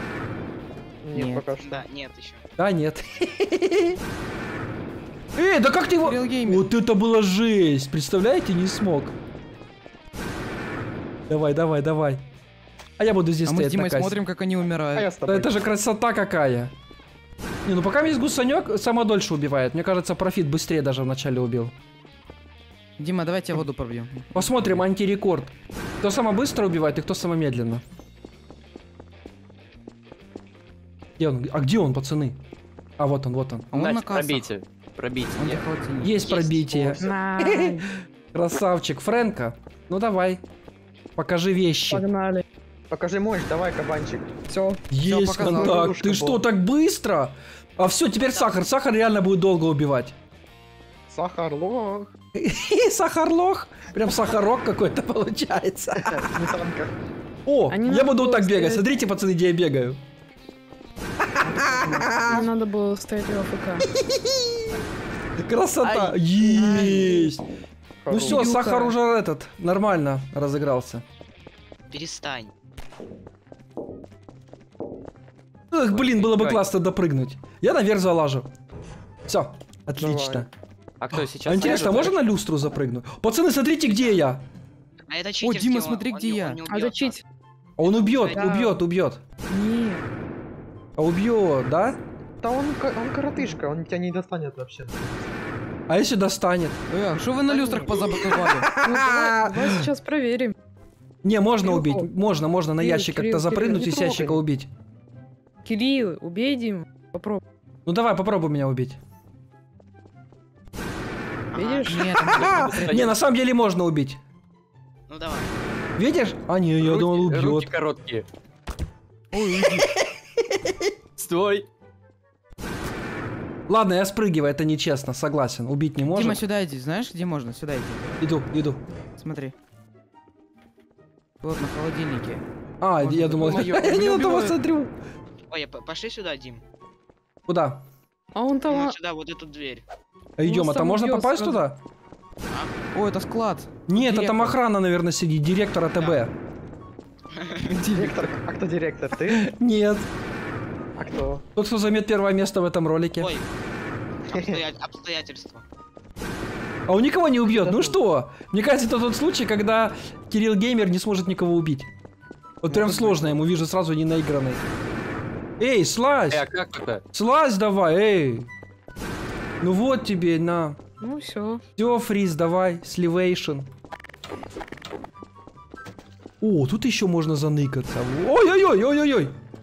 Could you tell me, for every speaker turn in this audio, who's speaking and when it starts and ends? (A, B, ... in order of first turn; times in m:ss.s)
0:01.0-0:01.8 A
0:01.1-0:01.5 B
0:01.6-0:02.4 C
0:02.6-0:04.0 D
0:05.3-0:09.2 D
0:06.0-0:06.7 B
0:11.3-0:12.2 D
0:13.0-0:14.2 D
0:13.4-0:15.1 B
0:14.9-0:15.5 A
0:15.2-0:16.7 D
0:17.6-0:21.7 D
0:23.0-0:24.8 B
0:24.3-0:27.8 D
0:31.2-0:32.4 D
0:33.0-0:33.7 D
0:33.7-0:34.5 B
0:33.7-0:35.6 E
0:35.4-0:36.2 B
0:36.0-0:37.8 D
0:36.2-0:37.2 C
0:37.0-0:37.9 F
0:38.3-0:40.4 D
0:41.2-0:42.0 D
0:41.9-0:42.4 F
0:42.9-0:44.3 A
0:44.5-0:44.8 F
0:44.9-0:50.1 D
0:45.0-0:45.9 B
0:45.5-0:46.4 A
0:48.2-0:48.6 C
0:51.1-0:52.1 A
0:52.4-0:56.3 D
0:56.1-0:56.9 A
0:57.4-1:00.0 D
0:57.7-0:59.0 F
1:01.2-1:02.5 D
1:01.4-1:02.4 B
1:02.2-1:03.9 F
1:03.9-1:04.8 D
1:05.4-1:07.4 D
1:05.8-1:06.1 E
1:06.5-1:07.3 F
1:08.0-1:08.5 A
1:08.1-1:09.0 F
1:08.2-1:11.0 D
1:11.9-1:12.5 C
1:15.7-1:18.5 D
1:15.9-1:16.6 E
1:19.3-1:20.5 D
1:20.0-1:20.5 A
1:21.0-1:22.2 E
1:21.4-1:24.4 D
1:23.9-1:24.2 C
1:25.1-1:27.2 C
1:25.4-1:26.6 B
1:26.6-1:27.2 F
1:27.8-1:29.2 D
1:27.8-1:28.5 C
1:28.3-1:28.8 F
1:29.5-1:30.0 F
1:31.0-1:32.0 D
1:32.4-1:35.3 A
1:35.9-1:36.8 D
1:36.9-1:38.7 B
1:37.5-1:37.9 A
1:38.1-1:39.7 D
1:38.7-1:40.5 F
1:41.2-1:44.7 D
1:41.6-1:42.1 F
1:42.8-1:43.9 F
1:43.7-1:44.4 A
1:45.6-1:47.4 F
1:47.8-1:49.0 D
1:51.5-1:52.0 C
1:51.5-1:52.0 F
1:51.8-1:53.1 B
1:52.2-1:53.1 E
1:52.2-1:54.2 D
1:55.1-1:55.5 C
1:56.0-1:57.7 D
1:56.8-1:58.3 E
1:59.3-1:59.9 B
2:01.2-2:01.6 E
2:03.7-2:06.4 D
2:06.1-2:08.2 B
2:08.2-2:08.8 D
2:09.2-2:09.5 B
2:11.4-2:12.4 B
2:12.8-2:14.9 D
2:13.0-2:14.6 B
2:15.5-2:16.6 C
2:17.5-2:17.8 D
2:18.3-2:19.0 F
2:18.6-2:19.8 C
2:20.4-2:21.8 D
2:20.4-2:21.6 F
2:22.5-2:22.7 C
2:22.9-2:24.6 B
2:23.9-2:26.3 D
2:27.3-2:27.6 C
2:27.7-2:28.3 B
2:27.9-2:29.5 A
2:29.3-2:30.1 D
2:31.0-2:31.4 A
2:31.6-2:33.3 D
2:33.2-2:33.5 C
2:34.3-2:35.6 C
2:36.9-2:41.9 D
2:37.4-2:38.0 A
2:42.6-2:44.6 D
2:42.7-2:43.1 B
2:45.6-2:46.5 D
2:46.3-2:47.0 E
2:47.1-2:48.5 D
2:49.6-2:50.8 D
2:51.0-2:51.6 F
2:51.8-2:53.7 D
2:56.4-2:59.3 D